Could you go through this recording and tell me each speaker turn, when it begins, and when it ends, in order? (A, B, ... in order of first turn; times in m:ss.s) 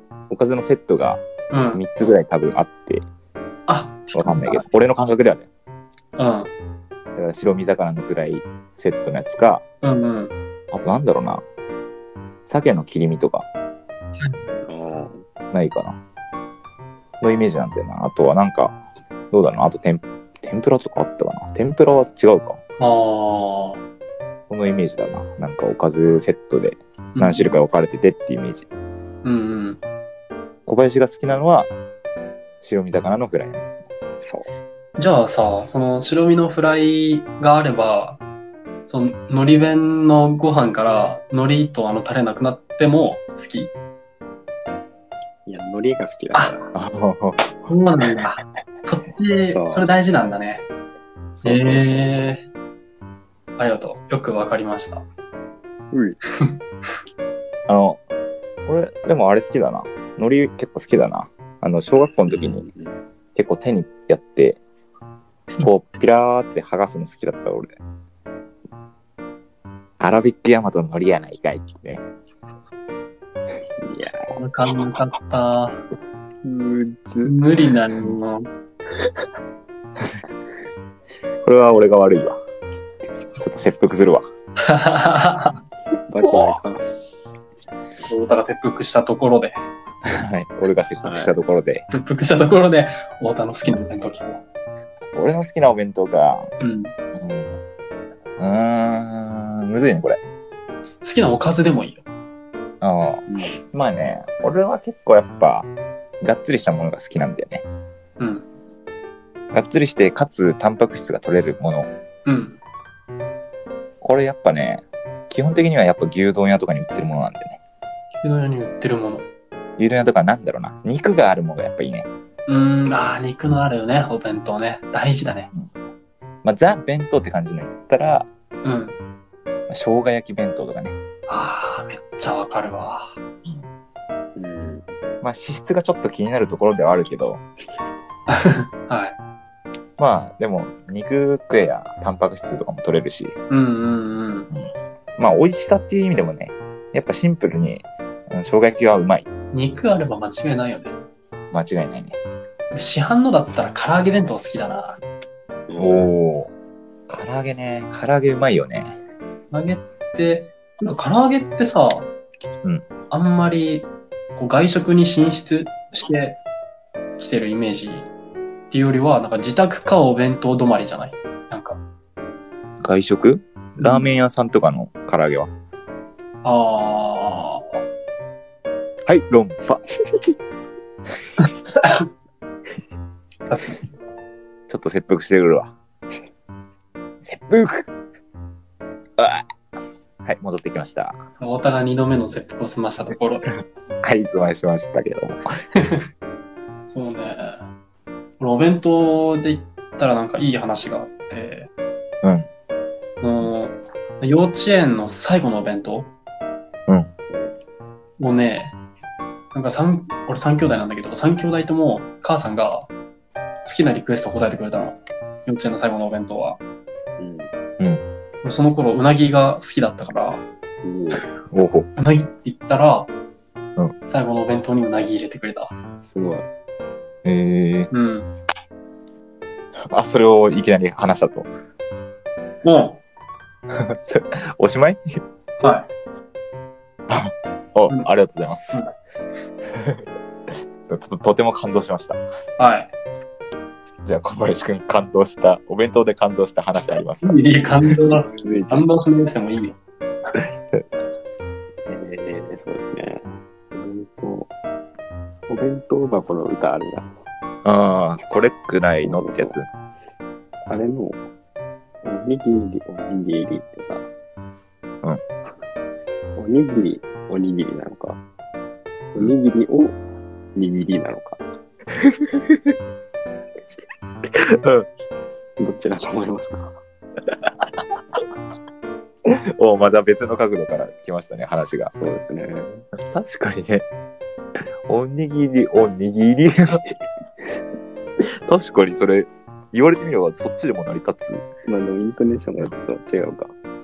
0:00.3-0:01.2 A
0:01.5-0:01.8 B
0:01.7-0:03.1 A
0:03.7-0:04.6 B
0:04.1-0:05.5 A
0:06.2-0:06.5 B
0:07.2-0:09.6 A
0:09.8-0:10.4 B
0:10.7-0:11.4 A
0:12.5-0:13.5 A
0:14.6-0:15.2 C
0:15.5-0:16.0 A
0:17.2-0:18.8 A
0:19.3-0:22.6 A
0:22.8-0:23.8 B
0:24.5-0:28.7 A
0:27.2-0:27.6 B
0:29.2-0:29.8 B
0:30.7-0:31.7 A
0:32.6-0:33.6 A
0:34.2-0:34.5 C
0:35.0-0:38.2 B
0:38.9-0:43.7 B
0:45.5-0:46.7 C
0:46.7-0:47.5 A
0:47.7-0:50.6 B
0:49.5-0:49.9 C
0:51.4-0:52.2 C
0:51.4-0:52.4 B
0:53.6-0:55.0 B
0:55.9-0:56.2 C
0:57.7-0:58.0 A
0:58.7-1:02.7 A
1:02.3-1:03.0 C
1:03.4-1:04.6 A
1:05.6-1:07.8 A
1:10.0-1:12.0 A
1:13.8-1:14.3 C
1:14.4-1:15.8 B
1:16.4-1:17.4 C
1:17.2-1:18.5 B
1:21.4-1:22.4 A
1:23.4-1:24.2 A
1:24.7-1:25.6 B
1:26.1-1:26.8 C
1:26.2-1:26.6 B
1:28.1-1:29.6 B
1:30.1-1:31.9 A
1:31.0-1:31.4 C
1:31.9-1:34.4 B
1:35.2-1:36.5 A
1:36.6-1:36.9 B
1:37.2-1:37.6 A
1:38.4-1:40.2 A
1:41.0-1:42.0 B
1:42.8-1:45.7 A
1:43.3-1:43.6 C
1:46.2-1:47.6 A
1:48.2-1:48.5 B
1:49.5-1:51.9 A
1:52.3-1:52.6 B
1:54.0-1:57.6 A
1:58.2-1:59.3 B
1:59.8-2:02.1 A
2:02.5-2:05.5 B
2:06.4-2:08.3 A
2:08.6-2:09.0 B
2:09.7-2:11.0 A
2:11.3-2:13.1 B
2:14.4-2:14.9 C
2:15.2-2:17.4 A
2:18.3-2:19.2 B
2:20.0-2:23.4 A
2:23.5-2:24.5 B
2:25.2-2:29.3 A
2:29.5-2:31.0 B
2:31.5-2:32.2 A
2:32.7-2:35.0 B
2:35.7-2:36.2 C
2:35.8-2:36.5 A
2:37.1-2:39.0 A
2:39.5-2:42.1 B
2:43.1-2:46.4 B
2:47.2-2:48.1 B
2:48.7-2:51.8 B
2:52.8-2:55.5 A
2:53.8-2:54.1 B
2:56.4-2:57.8 B
2:59.1-2:59.8 A
3:01.4-3:01.9 B
3:03.5-3:03.8 B
3:04.7-3:05.7 A
3:07.2-3:07.9 A
3:09.2-3:09.4 A
3:10.2-3:11.2 A
3:11.4-3:13.5 B
3:14.0-3:15.4 A
3:16.9-3:17.6 B
3:18.4-3:21.7 B
3:22.2-3:22.5 A
3:23.2-3:26.1 B
3:28.2-3:28.8 B
3:29.5-3:32.9 B
3:33.6-3:36.6 B
3:37.2-3:37.5 C
3:38.4-3:40.4 B
3:40.8-3:41.2 C
3:41.4-3:41.9 A
3:42.0-3:43.1 B
3:44.1-3:45.7 B
3:46.1-3:46.5 C
3:47.2-3:47.9 A
3:47.9-3:48.3 B
3:49.9-3:51.5 A
3:52.6-3:53.0 B
3:53.7-3:55.0 A
3:55.6-3:55.9 B
3:57.1-3:58.8 A
3:59.8-4:00.0 A
4:00.9-4:02.2 A
4:02.6-4:02.9 B
4:04.0-4:07.4 A
4:07.2-4:09.8 B
4:08.0-4:08.9 C
4:11.9-4:14.5 C
4:15.5-4:17.1 C
4:17.6-4:19.7 A
4:19.0-4:19.6 C
4:20.7-4:21.2 C
4:22.0-4:24.1 C
4:26.4-4:28.2 C
4:29.1-4:30.0 C
4:30.6-4:31.4 C
4:32.0-4:32.7 A
4:35.6-4:36.8 C
4:39.6-4:41.9 A
4:42.0-4:42.8 C
4:43.1-4:43.8 A
4:44.9-4:46.8 A
4:48.5-4:51.4 A
4:51.7-4:53.5 C